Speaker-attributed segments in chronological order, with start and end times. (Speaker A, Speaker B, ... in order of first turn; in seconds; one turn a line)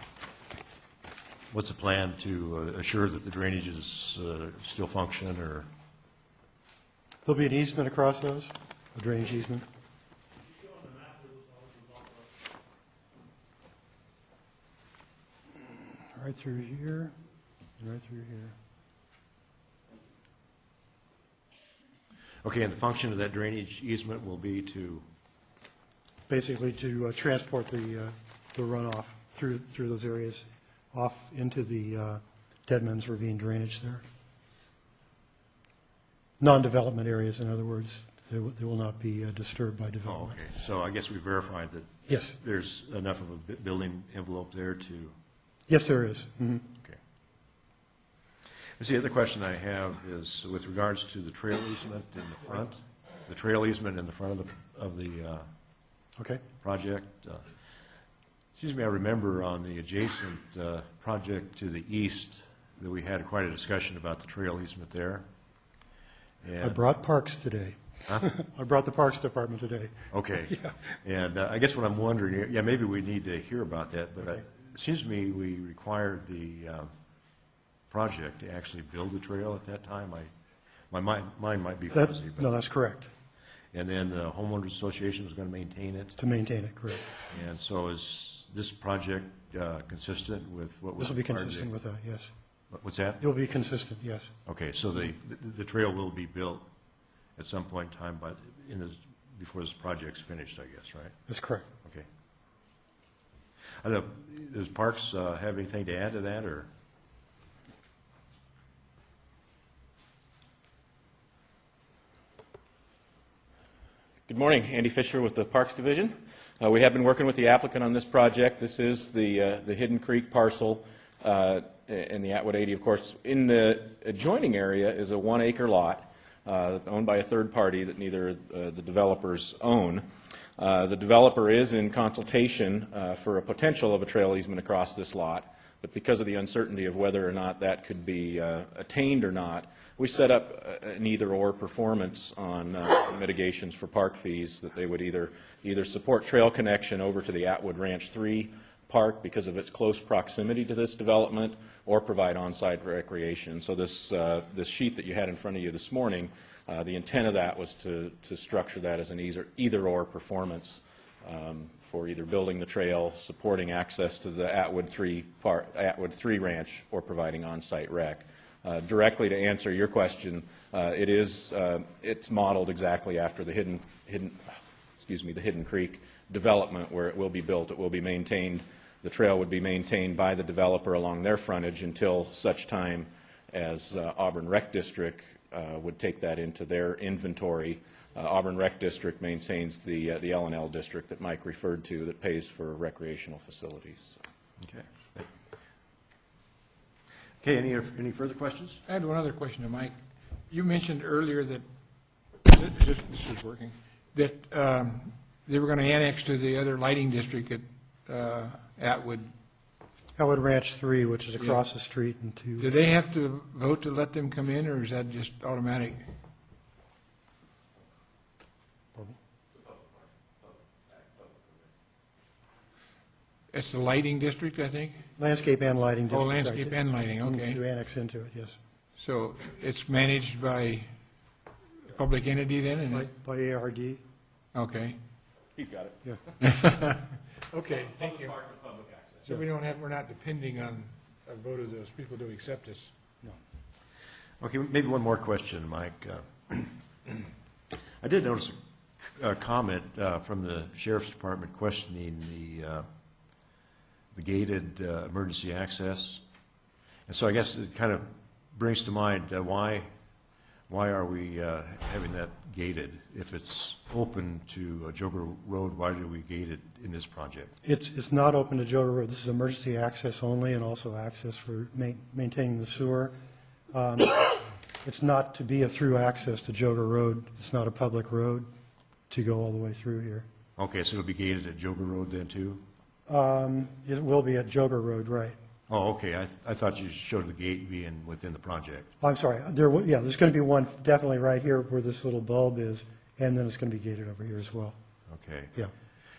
Speaker A: 1.5-5.7
Speaker B: 7.2-9.7
Speaker B: 16.1-17.1
Speaker B: 17.8-18.5
Speaker A: 22.4-25.0
Speaker B: 26.3-34.0
Speaker B: 36.4-40.4
Speaker A: 40.0-45.1
Speaker B: 42.1-42.4
Speaker B: 45.7-46.6
Speaker A: 48.8-55.5
Speaker A: 56.6-57.5
Speaker A: 58.6-65.3
Speaker A: 66.4-66.8
Speaker B: 66.6-70.8
Speaker A: 70.1-76.9
Speaker A: 77.9-80.3
Speaker A: 80.9-82.6
Speaker B: 81.9-83.1
Speaker A: 83.7-86.2
Speaker B: 86.2-87.1
Speaker A: 87.3-91.7
Speaker B: 91.0-92.3
Speaker A: 92.7-93.2
Speaker B: 93.2-94.3
Speaker A: 94.5-96.7
Speaker A: 97.4-101.2
Speaker B: 101.3-101.7
Speaker A: 103.8-106.7
Speaker C: 114.3-130.0
Speaker C: 130.6-174.4
Speaker C: 175.0-194.2
Speaker A: 194.6-195.3
Speaker A: 197.4-198.8
Speaker D: 198.9-199.9
Speaker D: 200.5-201.6
Speaker D: 202.4-209.3
Speaker B: 210.2-212.7
Speaker D: 212.6-216.0
Speaker D: 223.5-225.0
Speaker B: 225.2-228.6
Speaker D: 226.1-227.6
Speaker D: 229.0-230.9
Speaker D: 231.8-233.0
Speaker B: 232.9-234.0
Speaker D: 234.5-235.0
Speaker C: 235.6-236.0
Speaker D: 236.5-237.0
Speaker D: 237.5-238.3
Speaker C: 237.8-239.3
Speaker D: 239.2-242.9
Speaker A: 244.4-247.2
Speaker A: 248.0-252.9
Speaker A: 254.1-256.2
Speaker A: 257.1-259.9
Speaker A: 260.7-267.5
Speaker B: 267.6-273.1
Speaker B: 273.7-278.5
Speaker B: 279.1-280.2
Speaker A: 280.6-282.6
Speaker B: 283.1-285.4
Speaker A: 285.7-288.9
Speaker B: 289.0-294.8
Speaker A: 295.1-295.5